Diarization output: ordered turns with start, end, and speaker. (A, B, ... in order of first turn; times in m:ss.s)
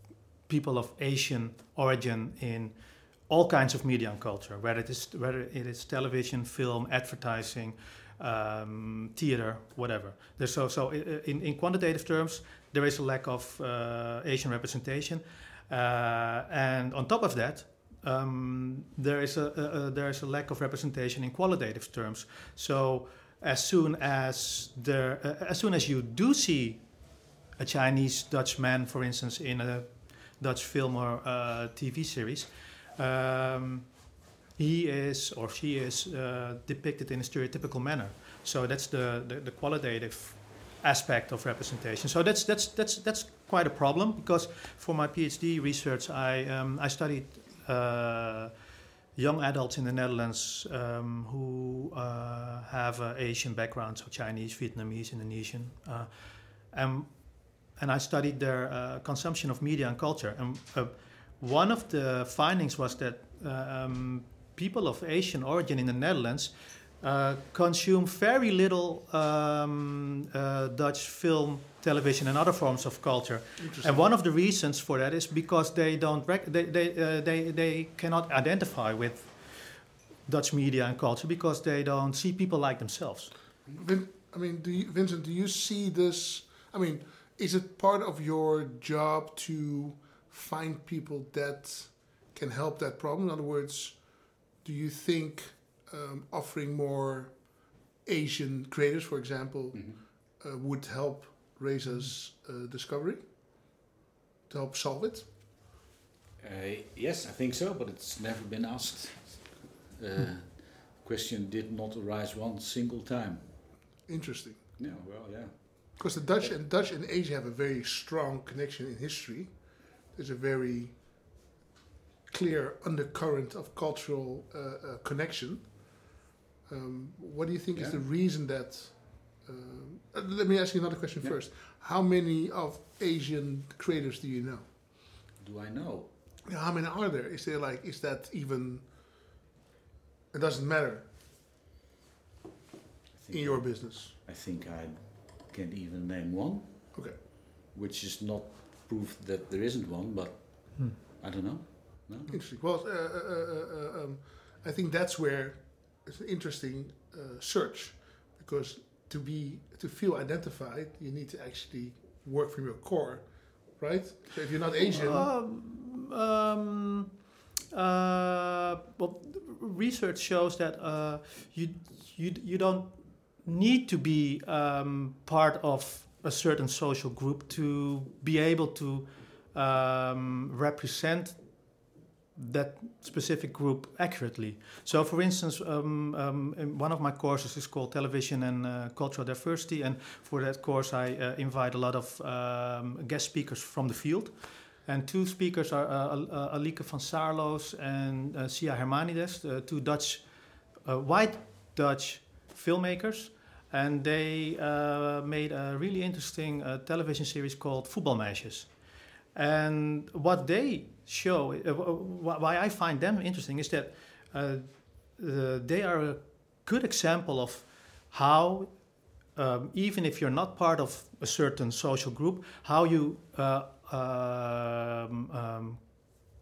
0:00.5-0:34.0 A
0:34.6-0:48.5 A
0:49.2-1:23.4 A
1:13.6-1:14.0 B
1:23.8-1:43.2 B
1:39.7-1:40.0 C
1:44.5-1:45.3 B
1:46.4-1:53.5 C
1:54.1-1:54.7 B
1:54.8-1:56.5 C
1:56.0-2:01.3 B
2:02.3-2:06.0 B
2:06.7-2:14.7 B
2:07.7-2:08.0 C
2:15.4-2:16.1 C
2:16.5-2:18.9 B
2:20.3-2:21.1 B
2:23.1-2:32.3 C
2:23.3-2:24.1 B
2:32.3-2:45.3 B
2:44.9-3:45.8 A